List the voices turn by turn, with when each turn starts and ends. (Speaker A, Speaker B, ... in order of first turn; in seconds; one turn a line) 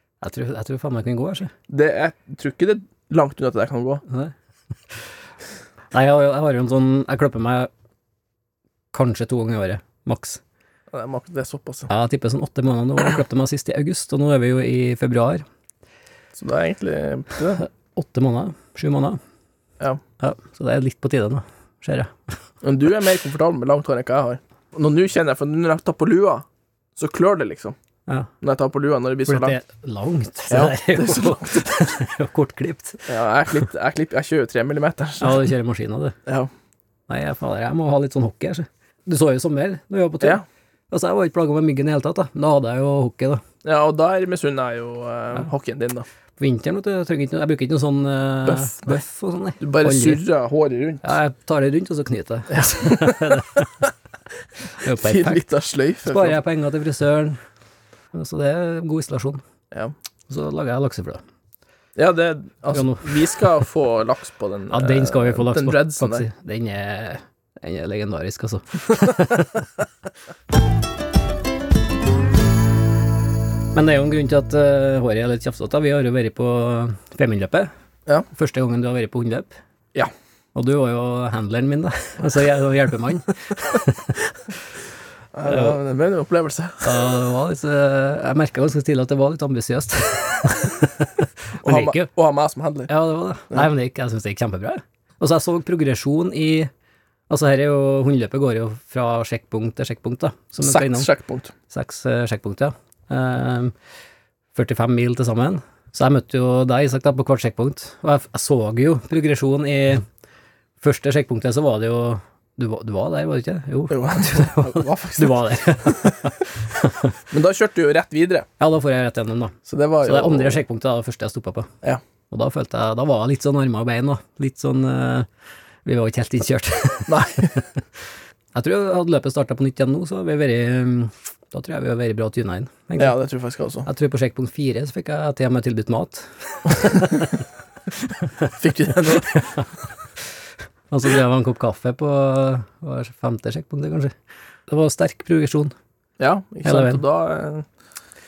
Speaker A: 0.2-1.5
Speaker B: 1.7-4.0
Speaker A: 4.1-4.3
Speaker A: 5.9-7.7
Speaker A: 8.9-10.4
Speaker B: 10.9-11.9
Speaker A: 11.9-15.4
Speaker B: 16.3-17.6
Speaker A: 17.9-19.2
Speaker A: 20.2-22.1
Speaker B: 22.6-27.8
Speaker B: 28.4-29.6
Speaker A: 29.2-33.1
Speaker B: 30.5-31.8
Speaker B: 33.1-35.5
Speaker A: 35.2-36.2
Speaker A: 37.1-43.4
Speaker B: 43.6-46.0
Speaker A: 46.4-50.2
Speaker B: 48.4-49.0
Speaker B: 49.6-51.1
Speaker A: 51.0-53.7
Speaker B: 52.5-53.4
Speaker A: 54.8-55.4
Speaker B: 54.9-56.4
Speaker A: 56.0-57.4
Speaker A: 58.1-59.4
Speaker A: 60.3-61.2
Speaker B: 62.0-66.3
Speaker A: 62.7-63.2
Speaker A: 64.7-69.7
Speaker A: 73.7-77.7
Speaker A: 78.3-79.6
Speaker A: 80.5-84.3
Speaker B: 85.3-87.0
Speaker A: 85.5-85.8
Speaker A: 86.8-92.1
Speaker B: 91.6-92.9
Speaker A: 92.9-96.7
Speaker A: 97.3-101.1
Speaker B: 100.6-101.5
Speaker A: 101.7-103.7
Speaker A: 104.5-110.0
Speaker A: 110.8-117.1
Speaker B: 113.9-116.1
Speaker B: 117.3-118.5
Speaker A: 118.6-121.7
Speaker B: 119.7-120.6
Speaker A: 122.3-125.3
Speaker A: 125.8-127.1
Speaker B: 127.1-127.6
Speaker A: 128.5-133.2
Speaker B: 133.0-133.9
Speaker A: 133.8-137.4
Speaker B: 138.6-139.5
Speaker A: 140.9-144.1
Speaker A: 144.7-145.7
Speaker B: 146.2-147.7
Speaker A: 146.6-147.0